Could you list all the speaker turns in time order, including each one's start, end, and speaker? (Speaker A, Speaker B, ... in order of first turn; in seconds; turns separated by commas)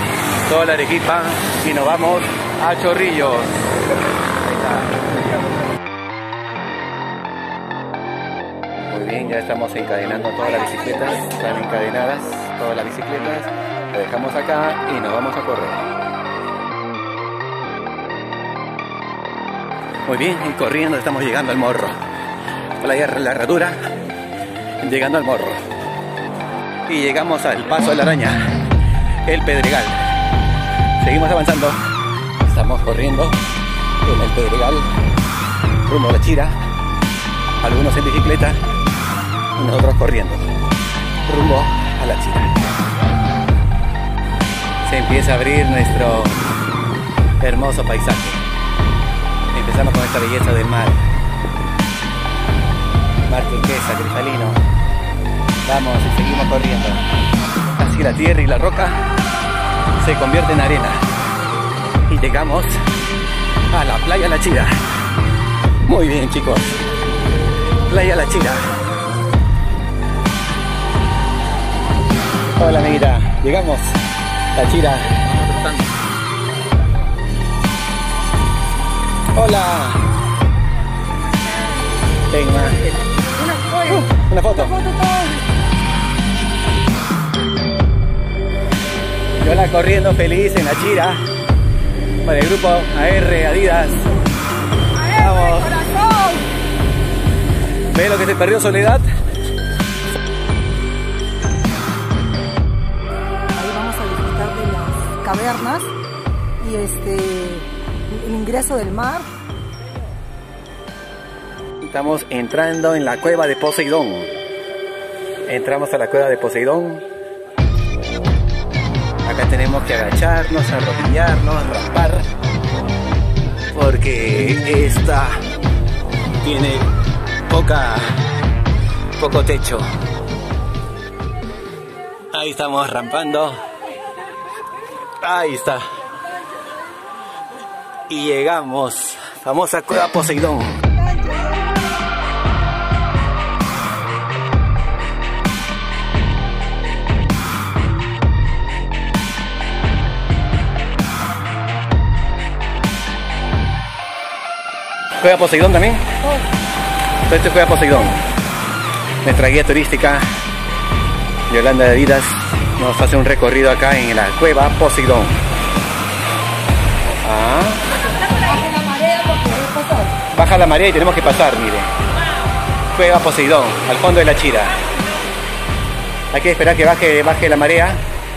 Speaker A: 0.4-3.7, Speaker A: 4.4-5.0, Speaker A: 8.7-15.9, Speaker A: 20.1-22.0, Speaker A: 22.8-23.8, Speaker A: 24.8-25.6, Speaker A: 26.9-28.6, Speaker A: 29.2-30.0, Speaker A: 31.0-31.8, Speaker A: 32.4-33.5, Speaker A: 34.0-34.9, Speaker A: 35.8-36.6, Speaker A: 37.6-38.6, Speaker A: 39.5-40.6, Speaker A: 41.2-42.7, Speaker A: 44.8-46.5, Speaker A: 47.4-48.5, Speaker A: 49.5-51.1, Speaker A: 53.3-54.6, Speaker A: 55.6-57.1, Speaker A: 57.6-59.0, Speaker A: 60.0-61.0, Speaker A: 62.1-62.8, Speaker A: 63.7-64.9, Speaker A: 65.8-66.9, Speaker A: 67.8-68.8, Speaker A: 72.5-74.0, Speaker A: 74.5-75.8, Speaker A: 79.3-80.1, Speaker A: 82.3-82.9, Speaker B: 83.2-84.0, Speaker A: 84.0-84.8, Speaker B: 84.7-85.4, Speaker A: 89.3-91.2, Speaker A: 92.2-94.1, Speaker A: 95.1-95.8, Speaker B: 95.1-96.5, Speaker A: 97.9-99.1, Speaker B: 103.5-105.9, Speaker B: 106.6-109.3, Speaker A: 111.8-114.3, Speaker A: 115.5-117.0, Speaker A: 119.2-122.3, Speaker A: 123.7-125.4, Speaker A: 126.4-126.9, Speaker A: 127.5-128.2, Speaker A: 129.2-129.9, Speaker A: 132.3-133.6, Speaker A: 135.2-135.8, Speaker A: 138.1-140.9, Speaker B: 141.0-141.7, Speaker A: 155.2-156.2, Speaker A: 157.2-158.2, Speaker A: 159.2-160.3, Speaker A: 161.5-165.4, Speaker A: 167.2-167.9, Speaker B: 168.2-170.2, Speaker A: 170.3-171.9, Speaker A: 172.9-174.8, Speaker A: 176.3-178.0